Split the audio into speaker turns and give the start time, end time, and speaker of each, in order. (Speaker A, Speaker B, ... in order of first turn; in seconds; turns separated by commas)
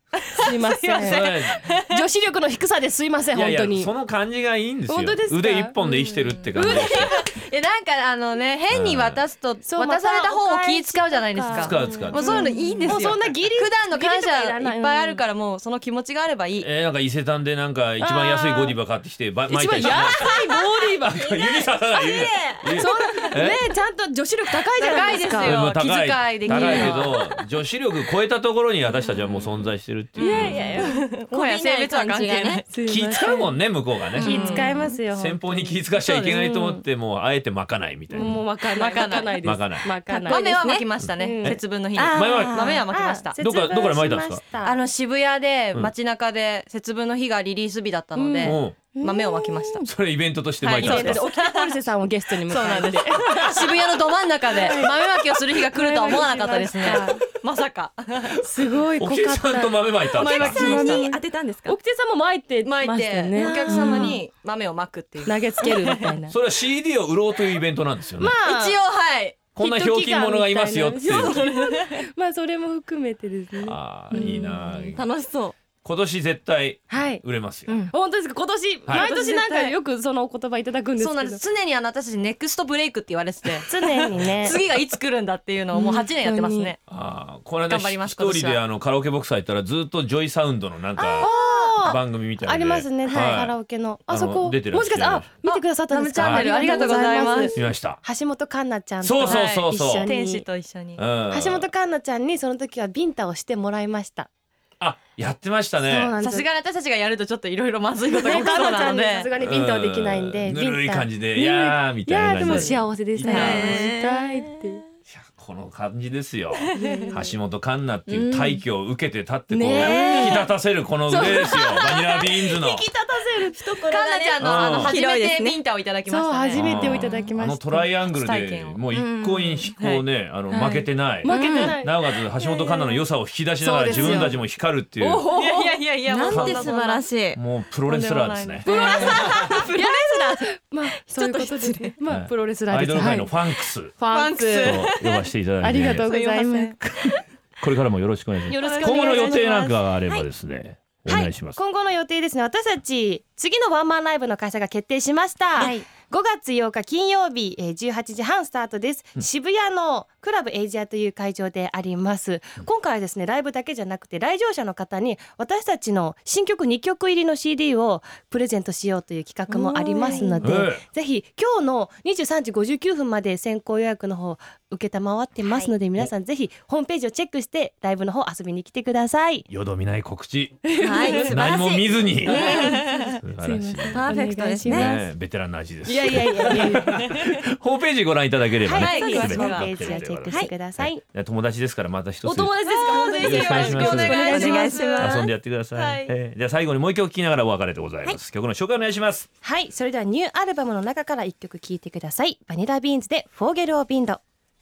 Speaker A: 0.4-1.3, Speaker B: 0.7-1.8, Speaker C: 1.0-1.7, Speaker A: 1.8-3.9, Speaker C: 3.3-7.2, Speaker A: 4.9-5.8, Speaker D: 5.8-6.3, Speaker B: 6.4-16.7, Speaker A: 6.5-7.3, Speaker C: 8.7-9.2, Speaker A: 9.6-15.2, Speaker C: 11.5-12.3, Speaker D: 11.7-13.1, Speaker C: 16.6-23.6, Speaker A: 18.0-18.8, Speaker A: 19.5-21.1, Speaker D: 21.1-23.4, Speaker A: 22.7-25.6, Speaker B: 24.8-27.1, Speaker C: 25.4-30.8, Speaker A: 26.5-27.0, Speaker D: 26.5-27.3, Speaker A: 30.2-31.0, Speaker B: 30.2-32.7, Speaker D: 30.3-32.6, Speaker A: 32.7-33.6, Speaker C: 32.9-38.4, Speaker A: 34.2-36.8, Speaker B: 34.2-34.7, Speaker D: 34.3-34.7, Speaker B: 36.0-36.4, Speaker A: 38.1-41.6, Speaker B: 38.6-39.6, Speaker C: 39.4-39.9, Speaker D: 40.1-40.9, Speaker B: 40.1-43.4, Speaker C: 41.0-42.8, Speaker D: 41.9-42.8, Speaker A: 42.8-44.8, Speaker C: 43.4-44.4, Speaker B: 44.6-49.9, Speaker A: 48.1-48.6, Speaker C: 48.4-48.8, Speaker D: 48.9-49.8, Speaker C: 49.8-51.2, Speaker B: 50.6-51.7, Speaker A: 50.8-57.2, Speaker B: 52.5-58.4, Speaker A: 58.4-64.2, Speaker C: 58.9-60.9, Speaker B: 60.1-61.1, Speaker D: 60.2-61.8, Speaker B: 62.6-66.0, Speaker D: 63.3-64.2, Speaker A: 65.2-66.3, Speaker C: 66.3-68.3, Speaker A: 68.2-68.8, Speaker B: 68.4-69.4, Speaker C: 69.5-71.4, Speaker A: 69.6-73.8, Speaker B: 71.0-72.0, Speaker C: 73.7-75.0, Speaker D: 74.1-75.5, Speaker C: 75.8-77.8, Speaker A: 76.9-77.2, Speaker D: 77.7-77.9, Speaker A: 77.9-81.4, Speaker B: 78.9-79.8, Speaker B: 81.0-86.8, Speaker A: 83.5-84.6, Speaker A: 85.7-86.7, Speaker C: 86.9-91.3, Speaker B: 87.6-88.6, Speaker A: 91.0-100.4, Speaker B: 91.2-92.0, Speaker C: 91.8-95.3, Speaker B: 95.4-97.5, Speaker C: 96.2-96.5, Speaker C: 97.5-98.0, Speaker C: 99.0-100.1, Speaker B: 99.2-101.0, Speaker C: 101.0-101.7, Speaker A: 101.3-104.3, Speaker C: 104.8-106.1, Speaker A: 105.8-106.5, Speaker B: 106.2-109.3, Speaker A: 108.1-114.8, Speaker C: 109.4-113.8, Speaker B: 112.4-112.7, Speaker D: 113.2-114.6, Speaker B: 113.3-113.9, Speaker C: 115.1-122.8, Speaker B: 116.6-117.0, Speaker A: 116.8-117.2, Speaker D: 118.1-118.6, Speaker A: 119.5-120.4, Speaker D: 119.7-120.4, Speaker B: 119.8-120.4, Speaker A: 121.1-124.0, Speaker D: 123.6-125.6, Speaker B: 123.8-126.9, Speaker C: 124.4-124.9, Speaker A: 126.1-127.9, Speaker C: 126.5-135.2, Speaker D: 126.7-127.2, Speaker B: 128.0-128.8, Speaker D: 128.9-129.7, Speaker B: 129.8-130.9, Speaker A: 130.6-133.0, Speaker D: 131.2-131.8, Speaker A: 133.6-134.4, Speaker B: 133.9-134.3, Speaker D: 133.9-134.2, Speaker A: 135.0-135.8, Speaker B: 135.2-137.1, Speaker D: 136.1-137.4, Speaker C: 136.3-136.7, Speaker C: 137.3-138.7, Speaker B: 137.8-140.5, Speaker A: 138.7-143.4, Speaker D: 138.7-139.6, Speaker D: 141.1-142.0, Speaker C: 142.1-143.9, Speaker A: 143.9-144.9, Speaker B: 144.1-145.2, Speaker C: 144.6-146.1, Speaker A: 145.6-146.8, Speaker B: 146.0-146.8, Speaker C: 147.6-151.6, Speaker A: 148.5-149.8, Speaker B: 148.5-149.7, Speaker A: 151.1-179.5, Speaker D: 169.5-170.5, Speaker C: 170.4-170.8, Speaker D: 175.4-175.7, Speaker C: 179.5-182.6, Speaker A: 180.6-185.1, Speaker D: 180.8-181.6, Speaker B: 181.0-181.7, Speaker D: 182.2-183.2, Speaker B: 182.3-183.2, Speaker C: 183.2-184.1, Speaker D: 183.9-184.9, Speaker C: 184.7-192.5, Speaker A: 185.8-187.0, Speaker D: 186.1-186.6, Speaker A: 188.6-191.0, Speaker B: 188.7-189.9, Speaker D: 188.9-189.6, Speaker D: 190.3-190.5, Speaker A: 192.2-195.1, Speaker D: 192.7-195.3, Speaker C: 193.2-199.3, Speaker B: 193.3-196.1, Speaker A: 199.4-204.2